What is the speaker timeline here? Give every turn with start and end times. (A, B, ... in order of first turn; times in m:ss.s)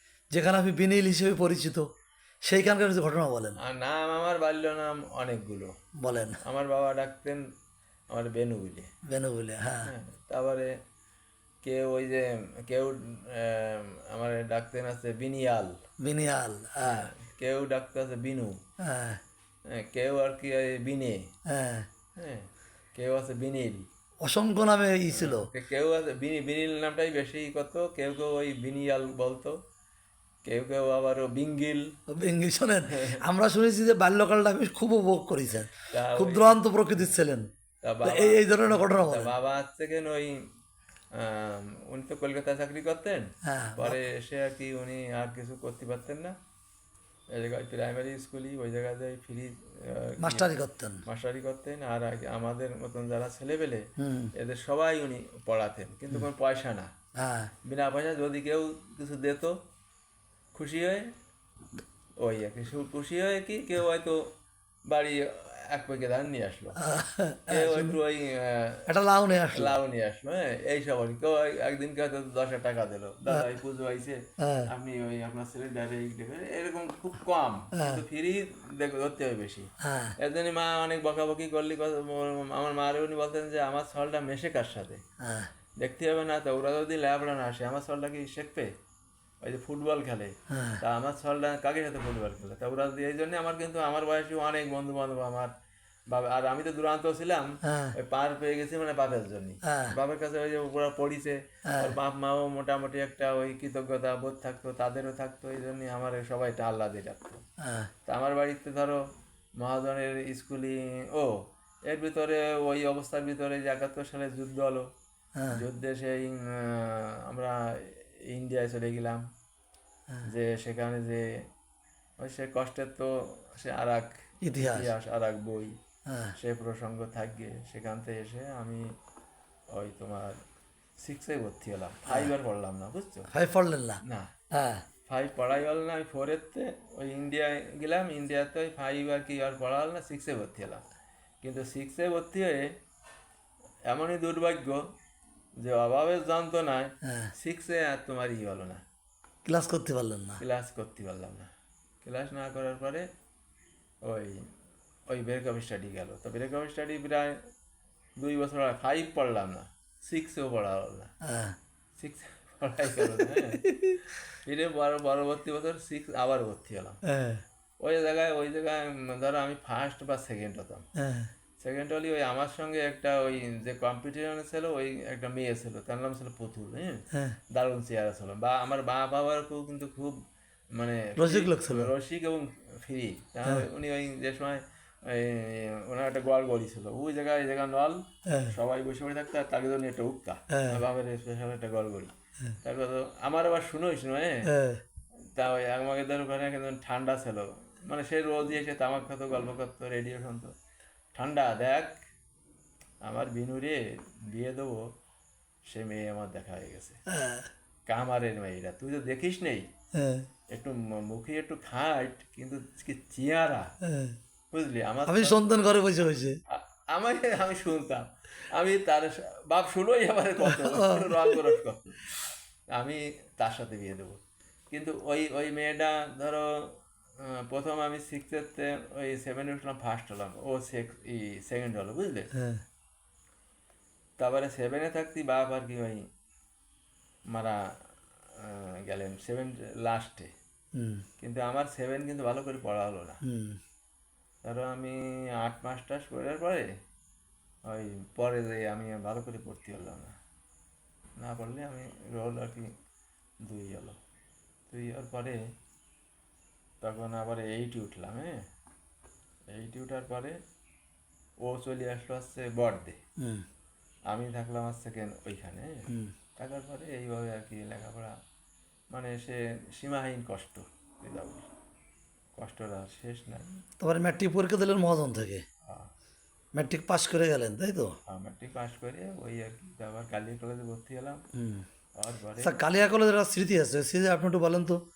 0:00.3-0:01.9 A
0:02.4-0:03.6 A
0:03.6-0:05.8 B
0:06.0-0:06.4 A
0:06.4-0:07.5 B
0:08.1-0:08.9 B
0:09.1-0:09.9 A
0:09.8-0:10.8 B
0:11.6-0:15.8 B
0:16.0-0:17.1 A
0:16.8-0:18.6 B
0:18.8-0:19.2 A
0:19.7-0:21.3 B
0:21.5-0:21.9 A
0:22.2-0:23.9 B
0:24.2-0:25.5 A
0:25.1-0:29.6 B
0:30.4-0:31.9 B
0:32.1-0:37.5 A
0:32.8-0:33.2 B
0:35.9-0:37.2 B
0:37.8-0:40.5 B
0:38.0-0:39.3 A
0:41.1-0:46.3 B
0:43.4-0:44.0 A
0:47.3-0:50.5 B
0:50.2-0:51.0 A
0:51.0-0:56.9 B
0:54.0-0:54.3 A
0:57.2-0:57.5 A
0:57.6-0:59.6 B
1:00.5-1:01.1 B
1:02.2-1:04.3 B
1:04.9-1:06.8 B
1:06.8-1:08.0 A
1:07.5-1:08.9 B
1:08.9-1:09.7 A
1:09.5-1:25.0 B
1:14.4-1:14.7 A
1:17.7-1:18.0 A
1:19.8-1:20.2 A
1:25.2-1:25.5 A
1:25.8-1:28.7 B
1:29.4-1:35.5 B
1:30.5-1:30.8 A
1:36.1-1:47.4 B
1:37.6-1:38.0 A
1:39.6-1:39.9 A
1:41.7-1:41.9 A
1:47.6-1:47.9 A
1:48.1-1:49.0 B
1:49.6-1:54.9 B
1:55.4-1:55.6 A
1:55.5-1:59.2 B
2:00.3-2:01.5 B
2:02.2-2:05.8 B
2:04.4-2:04.9 A
2:06.1-2:06.3 A
2:06.4-2:08.9 B
2:09.7-2:10.4 B
2:11.0-2:13.3 B
2:13.3-2:14.0 A
2:14.0-2:14.3 B
2:14.5-2:14.8 A
2:15.1-2:20.8 B
2:21.4-2:22.8 B
2:23.9-2:24.8 B
2:25.6-2:28.8 B
2:27.0-2:27.3 A
2:29.4-2:30.4 A
2:30.4-2:31.5 B
2:32.0-2:33.1 B
2:34.0-2:34.5 B
2:35.1-2:37.4 B
2:38.2-2:41.1 B
2:41.2-2:41.6 A
2:42.0-2:43.6 B
2:43.0-2:44.0 A
2:44.4-2:47.0 B
2:47.0-2:47.4 A
2:47.8-2:50.8 B
2:51.0-2:51.3 A
2:51.6-3:00.2 B
2:57.1-2:57.4 A
3:00.7-3:14.5 B
3:01.2-3:01.9 A
3:08.3-3:08.6 A
3:10.5-3:10.8 A
3:14.4-3:14.8 A
3:15.3-3:20.5 B
3:21.1-3:22.0 B
3:23.0-3:24.8 B
3:25.7-3:27.0 B
3:27.1-3:27.5 A
3:27.9-3:29.7 B
3:30.0-3:30.3 A
3:30.5-3:33.7 B
3:33.8-3:34.2 A
3:34.5-3:35.5 B
3:35.1-3:36.4 A
3:36.5-3:44.2 B
3:40.4-3:41.5 A
3:44.7-3:52.3 B
3:52.4-3:52.6 A
3:54.2-3:56.1 B
3:57.3-3:57.8 B
3:58.4-4:00.3 B
4:00.8-4:01.0 A
4:01.2-4:03.2 B
4:03.2-4:03.6 A
4:04.4-4:06.7 B
4:07.6-4:10.2 B
4:11.2-4:12.7 B
4:13.4-4:14.0 B
4:14.7-4:15.4 B
4:16.8-4:18.4 B
4:19.5-4:20.4 B
4:21.4-4:23.0 B
4:23.2-4:23.4 A
4:24.1-4:28.1 B
4:28.9-4:31.5 B
4:32.4-4:33.6 B
4:33.8-4:35.4 A
4:36.6-4:38.0 A
4:38.1-4:41.2 B
4:41.4-4:41.7 A
4:42.0-4:42.6 B
4:42.4-4:44.8 A